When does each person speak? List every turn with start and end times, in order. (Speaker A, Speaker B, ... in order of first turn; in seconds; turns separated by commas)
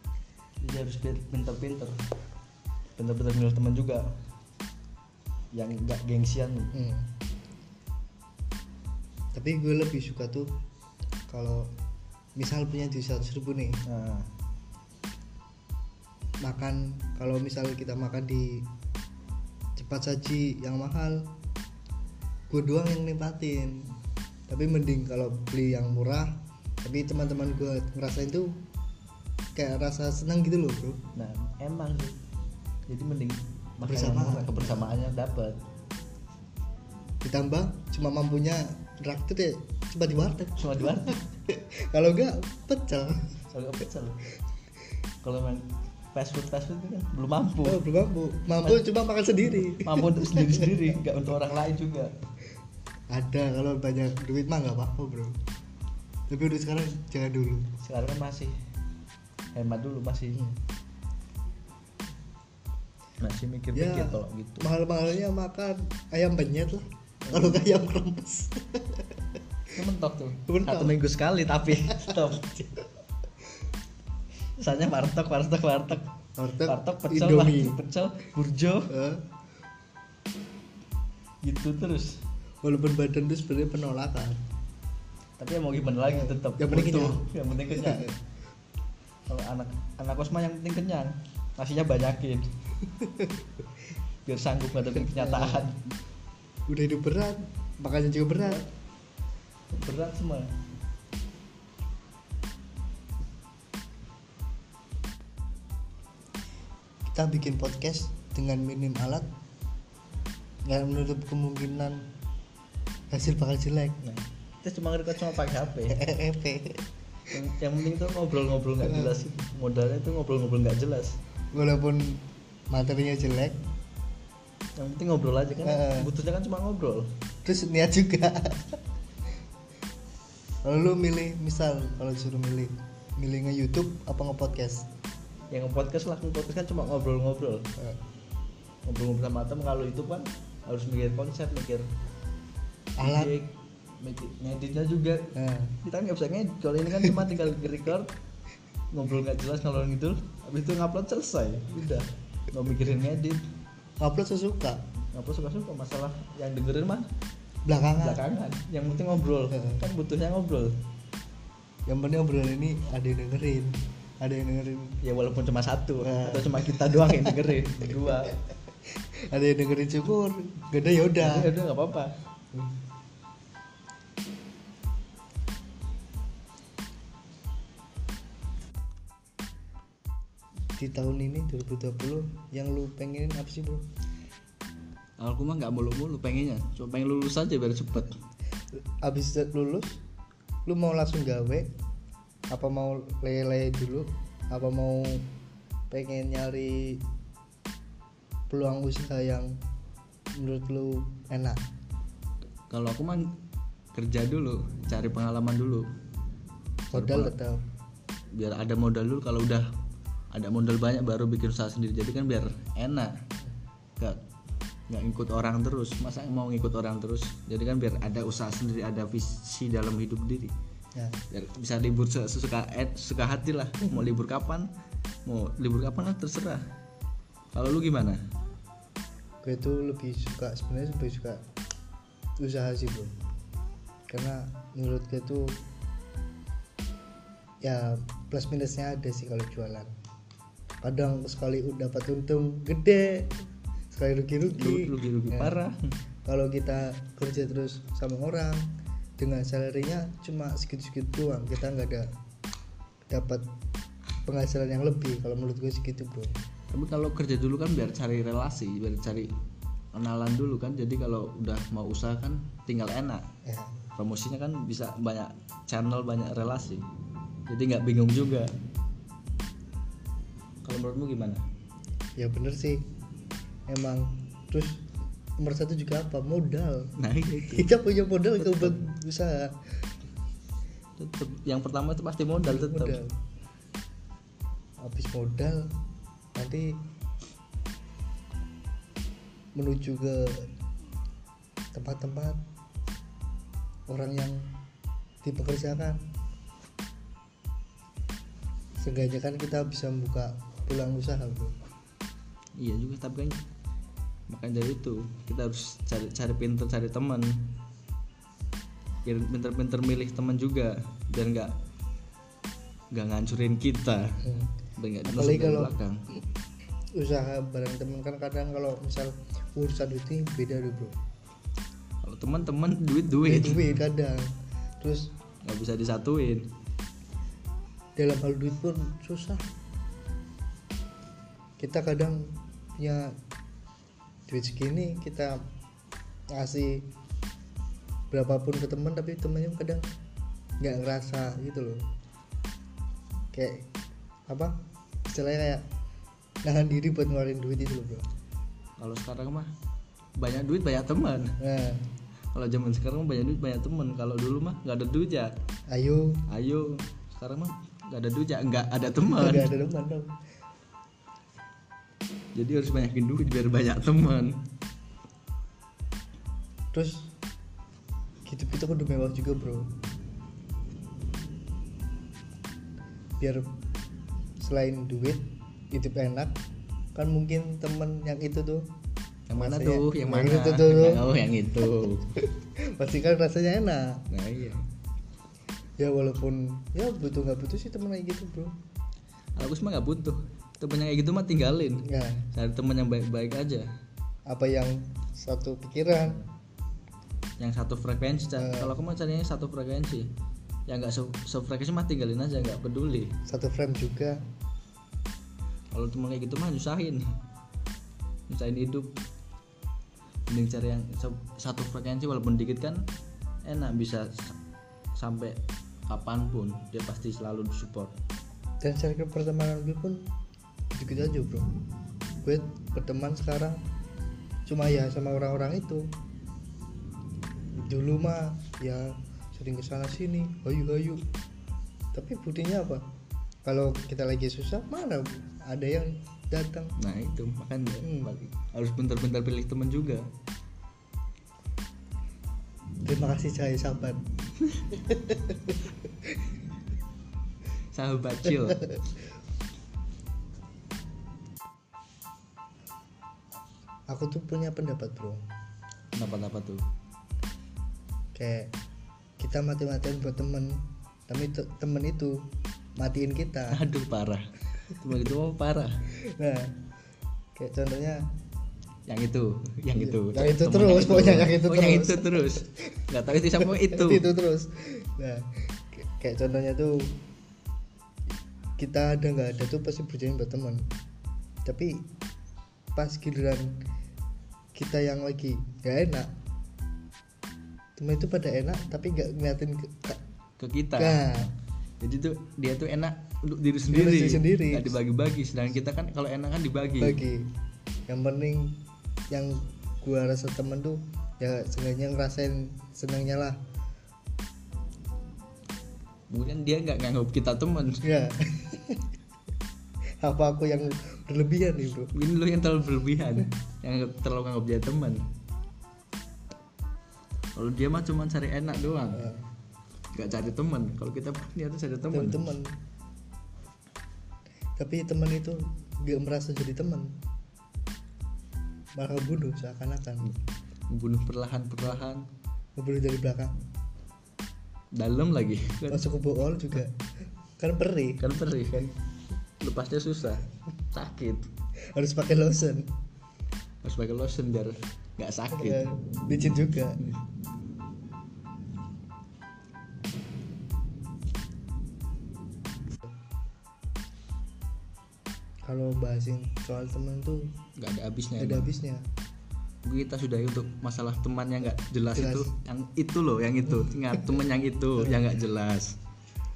Speaker A: 0.6-2.0, Speaker A: 3.0-4.0, Speaker A: 5.5-6.7, Speaker B: 6.7-7.1, Speaker B: 9.3-10.5, Speaker B: 11.3-11.7, Speaker B: 12.4-13.8, Speaker A: 13.9-14.3, Speaker B: 16.4-18.7, Speaker B: 19.8-21.3, Speaker B: 22.5-23.9, Speaker B: 24.5-28.6, Speaker B: 29.6-31.0, Speaker A: 31.1-32.2, Speaker A: 32.9-35.6, Speaker B: 33.9-34.9, Speaker B: 37.2-43.3, Speaker A: 40.6-41.2, Speaker A: 43.5-44.2, Speaker A: 45.2-47.8, Speaker B: 47.6-50.8, Speaker A: 49.6-52.1, Speaker B: 53.1-55.4, Speaker B: 56.3-57.7, Speaker A: 57.8-58.5, Speaker A: 59.5-60.4, Speaker A: 63.2-64.7, Speaker B: 63.7-69.2, Speaker A: 67.3-67.6, Speaker A: 69.7-72.5, Speaker B: 70.5-71.0, Speaker B: 71.9-72.8, Speaker A: 74.6-76.1, Speaker B: 76.4-77.8, Speaker A: 76.6-78.9, Speaker B: 78.9-79.2, Speaker A: 81.4-82.2, Speaker B: 82.6-84.4, Speaker A: 85.4-88.1, Speaker B: 86.1-88.2, Speaker A: 89.3-92.5, Speaker B: 92.9-93.4, Speaker A: 94.3-95.8, Speaker B: 95.1-95.7, Speaker B: 96.7-98.6, Speaker A: 98.4-98.7, Speaker A: 99.7-100.5, Speaker B: 107.1-109.3, Speaker B: 110.7-112.1, Speaker B: 113.1-114.0, Speaker A: 114.0-116.0, Speaker B: 115.9-116.8, Speaker A: 117.3-121.2, Speaker B: 118.8-119.1, Speaker B: 121.5-123.6, Speaker A: 124.8-127.1, Speaker B: 125.6-126.1, Speaker B: 127.5-128.8, Speaker B: 130.6-134.9, Speaker A: 135.5-137.7, Speaker A: 138.8-141.9, Speaker B: 143.0-143.4, Speaker A: 143.0-148.1, Speaker B: 145.3-145.8, Speaker A: 148.9-153.4, Speaker B: 154.0-154.8, Speaker A: 155.1-157.1, Speaker B: 157.7-158.2, Speaker A: 158.0-160.7, Speaker B: 159.5-159.8, Speaker B: 161.9-165.0, Speaker A: 165.0-168.4, Speaker B: 166.0-167.4, Speaker B: 169.3-171.5, Speaker A: 171.2-172.1, Speaker B: 180.8-183.8, Speaker A: 185.2-188.2, Speaker B: 189.0-190.0, Speaker B: 190.7-191.7, Speaker B: 192.5-195.3, Speaker B: 195.9-197.0, Speaker B: 198.5-199.5, Speaker B: 200.4-201.6, Speaker A: 202.7-203.3, Speaker A: 203.9-205.9, Speaker A: 206.9-207.4, Speaker B: 206.9-207.6, Speaker A: 208.3-209.7, Speaker A: 210.3-213.1, Speaker A: 214.9-220.5, Speaker A: 221.3-224.7, Speaker A: 225.3-226.7, Speaker A: 227.5-228.2, Speaker B: 229.4-231.4, Speaker B: 232.4-233.1, Speaker B: 234.1-235.6, Speaker B: 237.6-239.9, Speaker B: 240.8-245.6, Speaker A: 244.5-245.9, Speaker B: 246.3-252.1, Speaker B: 253.1-253.4, Speaker B: 254.3-256.4, Speaker A: 256.7-259.3, Speaker A: 259.9-263.3, Speaker B: 263.4-263.8, Speaker A: 264.0-266.9, Speaker A: 267.5-268.5, Speaker A: 270.6-271.4, Speaker B: 272.2-272.8, Speaker B: 273.7-274.8, Speaker B: 275.4-279.6, Speaker A: 277.0-277.7, Speaker A: 278.4-278.8, Speaker A: 281.0-283.0, Speaker B: 282.4-283.1, Speaker B: 284.8-285.7, Speaker B: 286.4-286.7, Speaker B: 289.6-290.5, Speaker B: 291.8-292.4, Speaker B: 293.9-294.5, Speaker B: 295.2-296.0, Speaker B: 298.8-301.5, Speaker A: 302.6-303.4, Speaker A: 304.3-307.4, Speaker A: 309.1-311.5, Speaker A: 312.9-314.2, Speaker B: 314.2-314.5, Speaker A: 314.8-316.0, Speaker B: 315.1-315.7, Speaker B: 317.0-320.9, Speaker A: 322.0-323.7, Speaker B: 323.2-324.3, Speaker B: 324.8-325.1, Speaker A: 325.5-326.5, Speaker B: 328.0-329.4, Speaker B: 331.6-332.2, Speaker B: 332.8-333.1, Speaker B: 334.3-335.4, Speaker B: 336.3-336.9, Speaker B: 338.1-339.9, Speaker B: 340.6-341.8, Speaker B: 343.3-343.6, Speaker B: 344.3-344.6, Speaker B: 345.1-345.6, Speaker B: 346.4-348.1, Speaker A: 348.8-349.5, Speaker A: 350.2-351.4, Speaker B: 351.4-351.8, Speaker A: 352.3-355.3, Speaker B: 355.7-356.2, Speaker A: 356.3-359.5, Speaker B: 359.1-360.1, Speaker A: 362.4-364.4, Speaker B: 366.7-367.1, Speaker B: 368.3-369.7, Speaker B: 373.2-373.5, Speaker B: 374.4-376.3, Speaker B: 376.9-378.7, Speaker A: 379.3-382.1, Speaker B: 379.4-381.1, Speaker B: 381.7-384.1, Speaker A: 384.1-384.6, Speaker B: 385.8-388.5, Speaker A: 389.4-393.7, Speaker B: 391.9-392.3, Speaker B: 394.3-396.2, Speaker A: 397.4-400.1, Speaker B: 398.4-398.8, Speaker A: 400.7-403.1, Speaker B: 403.3-404.2, Speaker A: 405.7-407.1, Speaker A: 408.3-408.9, Speaker A: 410.3-412.8, Speaker A: 413.5-414.4, Speaker A: 415.0-417.9, Speaker B: 418.6-420.1, Speaker B: 420.7-421.5, Speaker B: 422.2-423.6, Speaker B: 424.5-425.9, Speaker B: 427.5-431.0, Speaker B: 431.9-432.9, Speaker B: 433.5-436.7, Speaker A: 436.8-440.1, Speaker B: 437.8-438.1, Speaker B: 442.9-444.0, Speaker B: 444.7-445.7, Speaker A: 447.7-448.7, Speaker B: 453.9-455.2, Speaker A: 455.9-456.6, Speaker B: 458.1-458.5, Speaker B: 459.2-462.2, Speaker B: 462.8-463.6, Speaker A: 463.5-465.8, Speaker B: 466.2-466.6, Speaker B: 467.4-468.0, Speaker A: 468.9-474.1, Speaker B: 469.8-472.8, Speaker B: 473.4-476.9, Speaker B: 478.6-480.6, Speaker B: 481.5-481.8, Speaker B: 482.8-483.5, Speaker B: 484.6-486.1, Speaker B: 487.8-490.0, Speaker A: 490.4-491.3, Speaker B: 490.8-491.3, Speaker A: 491.8-497.0, Speaker B: 493.7-494.8, Speaker B: 496.8-497.3, Speaker B: 497.9-498.6, Speaker B: 499.1-503.4, Speaker A: 506.1-507.8, Speaker B: 507.8-508.9, Speaker B: 510.0-511.9, Speaker A: 511.9-515.0, Speaker A: 517.4-519.1, Speaker B: 518.9-519.2, Speaker A: 519.9-522.3, Speaker B: 521.9-522.5, Speaker B: 524.6-526.9, Speaker B: 528.8-530.1, Speaker A: 530.7-532.1, Speaker B: 532.6-533.4, Speaker A: 534.8-535.9, Speaker B: 535.7-536.8, Speaker B: 537.4-538.0, Speaker A: 538.0-538.8, Speaker A: 539.4-541.3, Speaker B: 541.8-542.7, Speaker A: 543.6-545.7, Speaker B: 545.3-546.8, Speaker B: 555.5-557.3, Speaker A: 557.6-558.5, Speaker B: 558.2-558.8, Speaker A: 559.6-565.7, Speaker B: 562.0-562.3, Speaker B: 563.6-564.0, Speaker B: 564.8-565.0